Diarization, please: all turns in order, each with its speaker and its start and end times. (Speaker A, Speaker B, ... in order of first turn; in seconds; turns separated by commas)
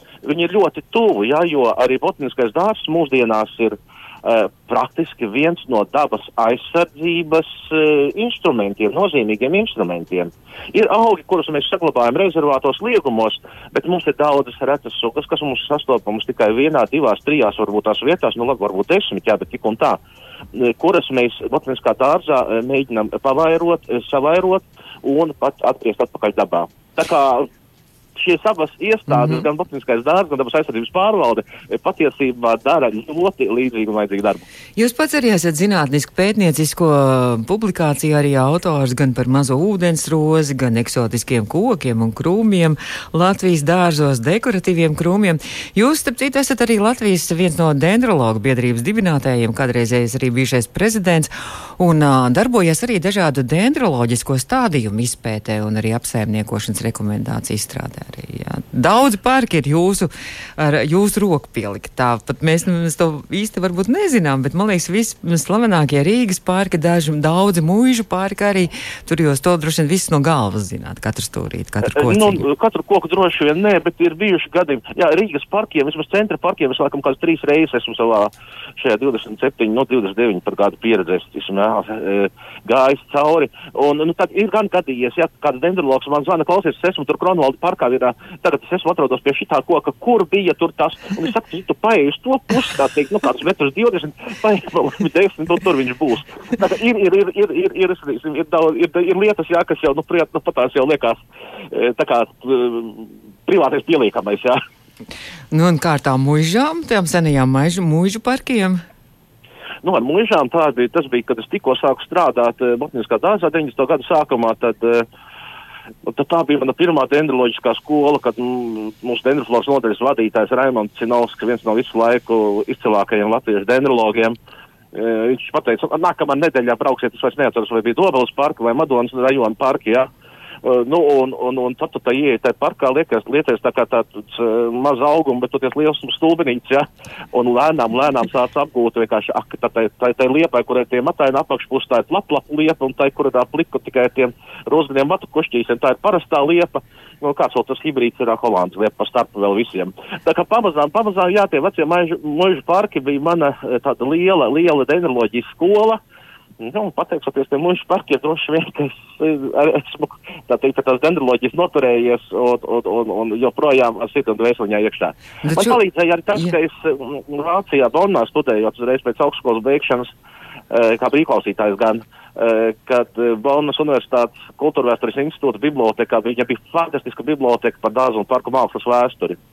Speaker A: 0.2-20.0, Speaker A: 20.6-27.5, Speaker A: 28.2-34.4, Speaker B: 29.1-29.4, Speaker B: 34.8-72.4, Speaker A: 71.9-104.6, Speaker B: 105.5-108.8, Speaker A: 109.8-115.1, Speaker A: 116.1-124.4, Speaker A: 124.9-130.1, Speaker A: 130.6-156.0, Speaker A: 156.6-170.1, Speaker B: 165.4-165.8, Speaker A: 170.7-179.4